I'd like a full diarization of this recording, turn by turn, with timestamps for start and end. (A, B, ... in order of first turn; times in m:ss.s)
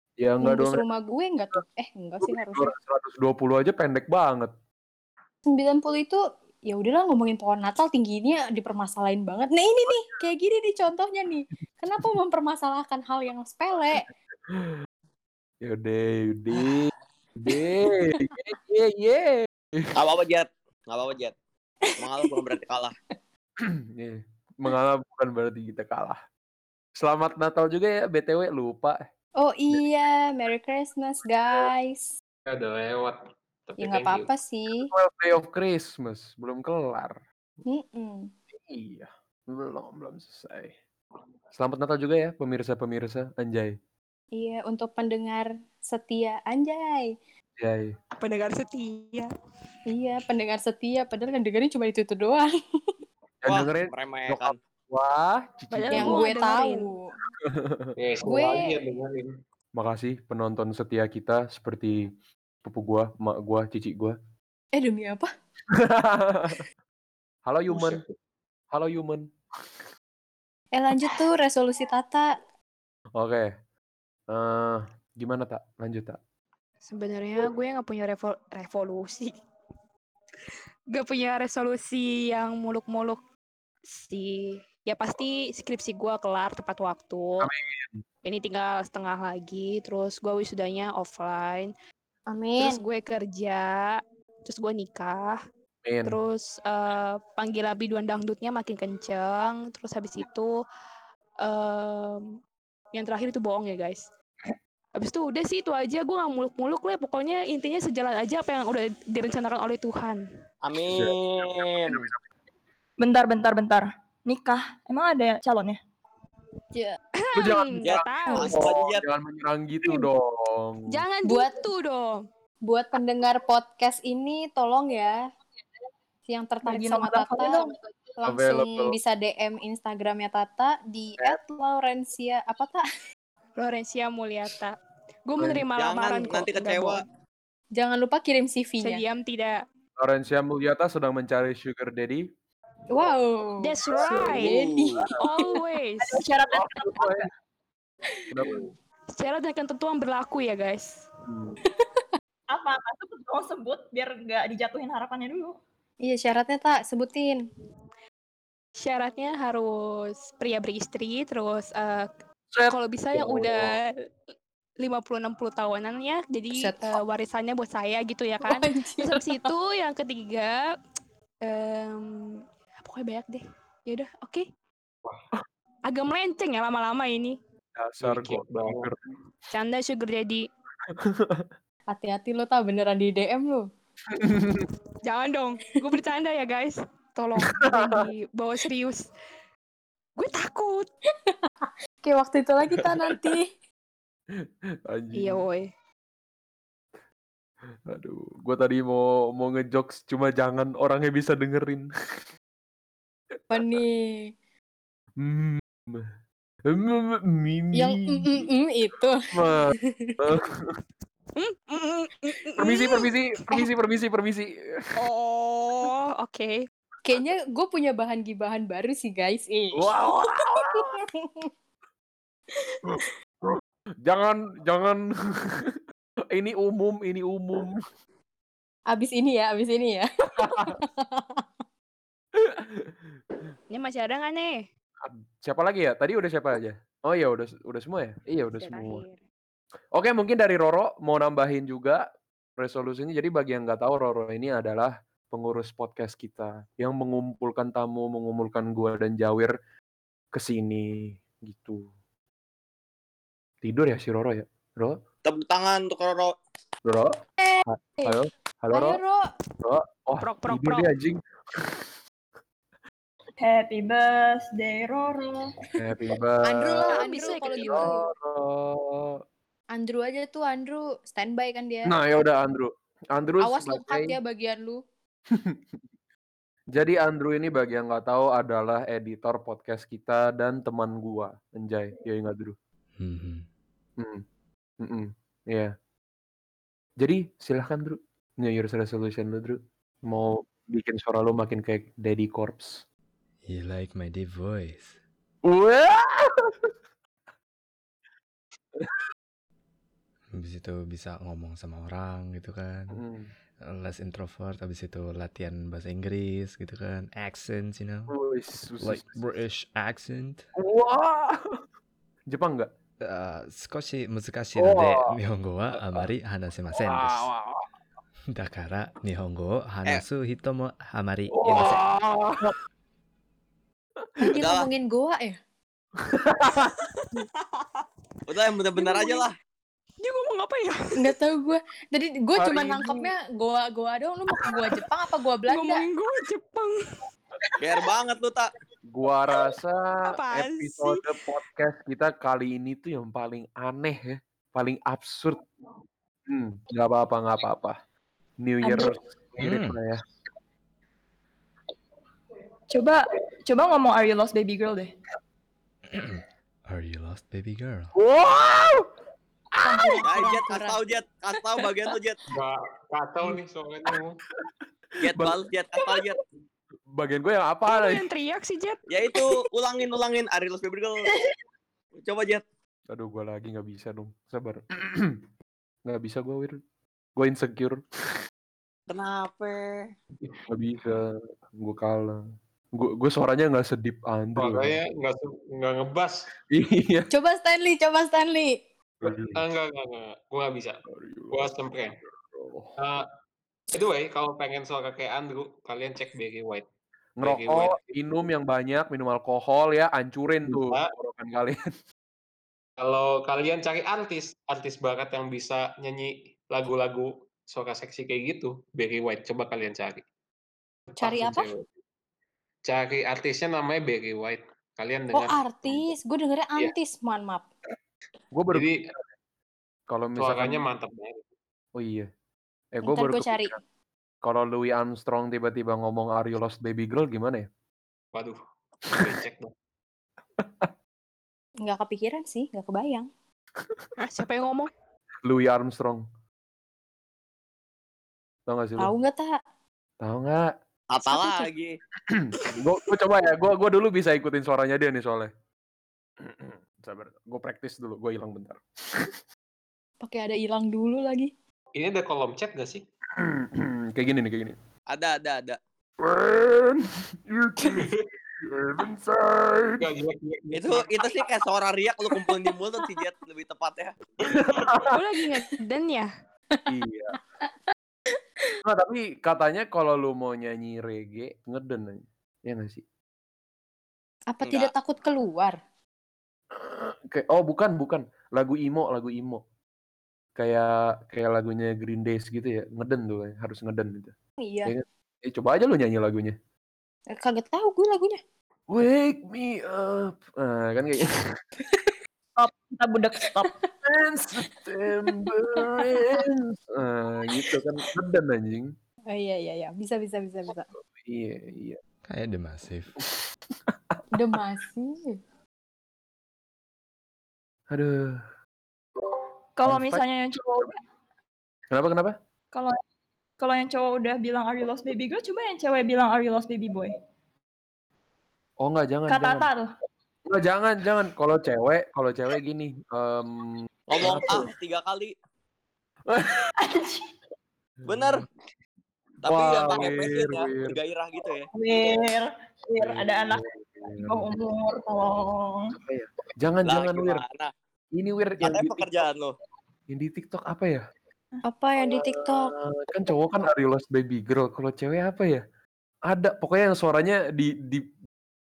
0:00.2-0:00.8 A
0:00.4-0:02.7 B
0:02.2-0:04.5 A
0:05.4-0:14.1 B
0:14.5-0:14.8 A
0:15.6-0:19.9 A
0:19.9-0:21.3 C
0:21.8-0:22.5 B
0:22.0-0:22.9 C
0:23.6-0:26.2 A
0:27.0-0:29.0 A
0:29.4-0:32.1 B
0:32.5-0:34.3 D
0:33.8-0:34.9 B
0:34.8-0:37.2 A
0:37.7-0:38.3 B
0:38.5-0:40.8 A
0:41.5-0:43.8 A
0:44.3-0:47.2 B
0:47.6-0:48.0 A
0:48.2-0:49.3 E
0:49.9-0:52.5 B
0:53.4-0:56.3 A
0:53.4-0:54.6 C
0:55.7-0:56.9 E
0:55.9-0:57.2 B
0:57.4-0:57.9 A
0:58.0-0:59.3 D
0:58.2-0:58.8 B
0:59.7-1:02.0 A
1:02.6-1:04.2 A
1:04.7-1:05.3 B
1:05.7-1:06.6 A
1:07.4-1:08.0 A
1:07.7-1:08.1 D
1:08.7-1:09.3 A
1:10.7-1:12.4 B
1:13.1-1:13.5 A
1:14.3-1:16.2 A
1:16.9-1:19.3 E
1:20.9-1:23.2 E
1:23.9-1:27.5 E
1:27.4-1:28.0 A
1:28.2-1:31.7 E
1:32.3-1:32.8 B
1:32.6-1:35.4 E
1:35.8-1:36.2 A
1:36.0-1:40.5 E
1:41.4-1:42.2 E
1:42.9-1:44.0 E
1:45.0-1:50.2 E
1:50.6-1:52.1 C
1:50.8-1:52.2 A
1:53.0-1:55.8 F
1:56.7-1:57.0 B
1:57.2-1:58.6 E
1:57.3-2:00.8 A
1:57.8-1:59.0 C
2:00.9-2:02.2 E
2:01.2-2:01.7 B
2:02.6-2:05.2 B
2:06.3-2:12.8 B
2:06.7-2:07.7 F
2:08.2-2:09.0 A
2:13.6-2:14.7 E
2:15.2-2:17.0 E
2:15.8-2:17.0 C
2:17.7-2:19.0 B
2:18.8-2:19.6 E
2:20.0-2:22.3 A
2:22.9-2:25.5 B
2:23.6-2:24.5 E
2:24.1-2:25.0 C
2:25.0-2:25.4 A
2:25.2-2:26.2 E
2:26.0-2:27.3 F
2:26.5-2:27.3 A
2:28.3-2:28.7 A
2:29.1-2:31.0 E
2:31.2-2:31.6 A
2:31.7-2:32.1 B
2:32.5-2:35.5 F
2:36.0-2:37.4 B
2:38.8-2:42.1 E
2:42.5-2:43.8 A
2:42.7-2:43.9 E
2:44.8-2:50.6 E
2:46.6-2:47.0 B
2:48.4-2:49.5 B
2:51.4-2:54.4 E
2:55.9-2:57.4 E
2:57.8-2:59.0 A
2:58.0-2:58.9 D
2:59.5-3:00.4 E
3:00.9-3:01.5 A
3:01.9-3:03.6 B
3:04.1-3:04.7 A
3:05.0-3:09.0 E
3:07.4-3:08.0 A
3:10.2-3:10.9 E
3:11.3-3:13.5 B
3:14.9-3:15.4 A
3:15.1-3:15.7 E
3:17.9-3:21.9 A
3:23.5-3:24.3 B
3:23.5-3:23.8 A
3:25.2-3:26.1 A
3:26.7-3:28.5 A
3:27.7-3:30.2 B
3:29.3-3:30.6 A
3:31.4-3:33.0 E
3:32.6-3:34.9 A
3:35.0-3:36.6 E
3:37.0-3:41.5 B
3:39.7-3:41.0 A
3:42.6-3:43.1 B
3:43.5-3:45.8 A
3:46.3-3:47.8 A
3:48.9-3:51.4 B
3:50.4-3:50.8 A
3:52.4-3:53.0 A
3:53.7-3:54.6 E
3:55.0-3:59.0 A
3:58.7-3:59.1 E
3:59.9-4:02.0 A
4:02.6-4:09.5 A
4:10.3-4:11.9 A
4:13.6-4:15.0 A
4:15.2-4:16.3 C
4:16.8-4:19.0 A
4:17.4-4:18.2 B
4:18.7-4:19.3 B
4:19.6-4:21.9 A
4:20.2-4:20.9 E
4:23.4-4:25.4 F
4:25.8-4:29.2 A
4:26.4-4:28.1 B
4:26.8-4:27.9 E
4:29.7-4:31.9 B
4:31.8-4:34.2 A
4:33.4-4:34.8 B
4:36.7-4:42.6 A
4:43.0-4:43.4 G
4:44.0-4:44.2 A
4:44.8-4:45.7 A
4:47.0-4:52.8 A
4:53.5-4:55.0 G
4:55.4-4:56.7 A
4:58.8-4:59.0 A
5:00.3-5:03.0 G
5:02.9-5:03.3 A
5:03.7-5:08.1 G
5:08.1-5:09.2 A
5:08.8-5:10.5 G
5:10.5-5:11.4 A
5:12.3-5:12.7 A
5:13.0-5:17.3 G
5:14.6-5:15.1 A
5:15.8-5:16.1 A
5:16.8-5:17.7 A
5:18.3-5:21.9 G
5:21.3-5:22.5 A
5:24.2-5:25.4 B
5:24.3-5:24.7 C
5:26.0-5:26.8 A
5:28.3-5:29.3 C
5:28.9-5:29.2 E
5:30.0-5:30.8 E
5:31.0-5:35.8 B
5:32.3-5:33.1 A
5:35.5-5:36.7 E
5:37.6-5:38.5 C
5:38.9-5:45.4 A
5:40.1-5:41.0 E
5:46.3-5:47.8 A
5:48.4-5:50.0 A
5:49.4-5:49.8 G
5:52.7-5:54.9 F
5:55.9-5:57.9 G
5:57.9-5:58.9 A
5:59.6-6:00.8 B
5:59.6-6:00.0 A
6:00.0-6:02.2 C
6:02.3-6:04.2 D
6:05.0-6:06.2 C
6:05.1-6:05.4 A
6:06.9-6:08.0 A
6:07.7-6:08.8 E
6:08.9-6:11.1 C
6:12.0-6:12.4 C
6:12.9-6:15.2 A
6:15.8-6:16.6 A
6:17.2-6:17.8 A
6:18.9-6:19.9 C
6:20.5-6:22.2 A
6:22.7-6:24.8 A
6:24.4-6:26.2 D
6:26.5-6:27.1 A
6:27.1-6:28.6 B
6:29.0-6:29.4 A
6:29.0-6:31.9 D
6:30.9-6:31.5 A
6:32.3-6:32.7 A
6:32.8-6:33.0 D
6:33.7-6:36.6 D
6:37.2-6:41.6 A
6:37.2-6:38.0 D
6:40.5-6:40.9 D
6:42.8-6:50.0 D
6:50.9-6:51.7 D
6:51.0-6:51.5 B
6:52.7-6:55.9 D
6:55.1-6:57.4 B
6:58.3-6:59.0 A
6:58.5-6:58.9 D
6:59.9-7:00.6 A
7:00.2-7:01.2 D
7:01.8-7:02.1 A
7:02.7-7:03.6 A
7:02.8-7:03.6 B
7:04.2-7:07.5 A
7:08.1-7:09.5 D
7:08.9-7:09.2 A
7:10.4-7:10.7 A
7:11.6-7:13.1 B
7:14.0-7:14.7 E
7:15.2-7:16.0 A
7:18.5-7:18.9 A
7:18.8-7:19.4 B
7:20.0-7:20.5 A
7:20.9-7:21.8 C
7:21.0-7:21.4 B
7:22.1-7:25.3 A
7:26.2-7:29.2 A
7:30.0-7:31.3 B
7:31.7-7:32.8 D
7:33.2-7:34.6 A
7:34.9-7:35.6 C
7:36.0-7:39.8 A
7:37.7-7:38.0 D
7:39.8-7:41.2 D
7:40.5-7:44.4 C
7:44.2-7:44.8 D
7:44.3-7:45.0 A
7:44.9-7:46.1 E
7:46.7-7:47.1 A
7:48.6-7:52.8 A
7:54.3-7:55.6 B
7:54.4-7:54.7 C
7:56.5-7:59.4 A
8:00.4-8:04.1 A
8:04.4-8:04.7 B
8:04.6-8:06.4 A
8:07.1-8:08.2 B
8:08.7-8:11.3 A
8:11.6-8:11.9 B
8:12.4-8:13.5 F
8:13.8-8:18.7 A
8:15.6-8:16.1 B
8:19.1-8:20.7 B
8:20.8-8:21.8 A
8:22.1-8:23.0 G
8:23.7-8:24.4 A
8:24.1-8:25.2 B
8:27.7-8:28.2 A
8:29.6-8:30.8 F
8:29.6-8:30.0 A
8:31.7-8:32.2 A
8:33.4-8:36.9 F
8:38.6-8:39.5 A
8:39.1-8:39.7 F
8:40.3-8:44.5 A
8:43.9-8:45.1 C
8:46.1-8:46.5 A
8:46.6-8:47.1 F
8:47.8-8:48.2 A
8:47.8-8:48.3 C
8:49.2-8:51.5 C
8:49.3-8:50.8 A
8:51.5-8:53.4 F
8:52.8-8:54.4 A
8:54.0-8:55.7 F
8:55.8-8:57.2 A
8:56.6-8:57.5 C
8:57.9-8:59.0 A
8:58.4-8:59.3 C
8:59.9-9:00.9 A
9:01.4-9:02.5 B
9:01.8-9:05.4 A
9:06.1-9:07.9 A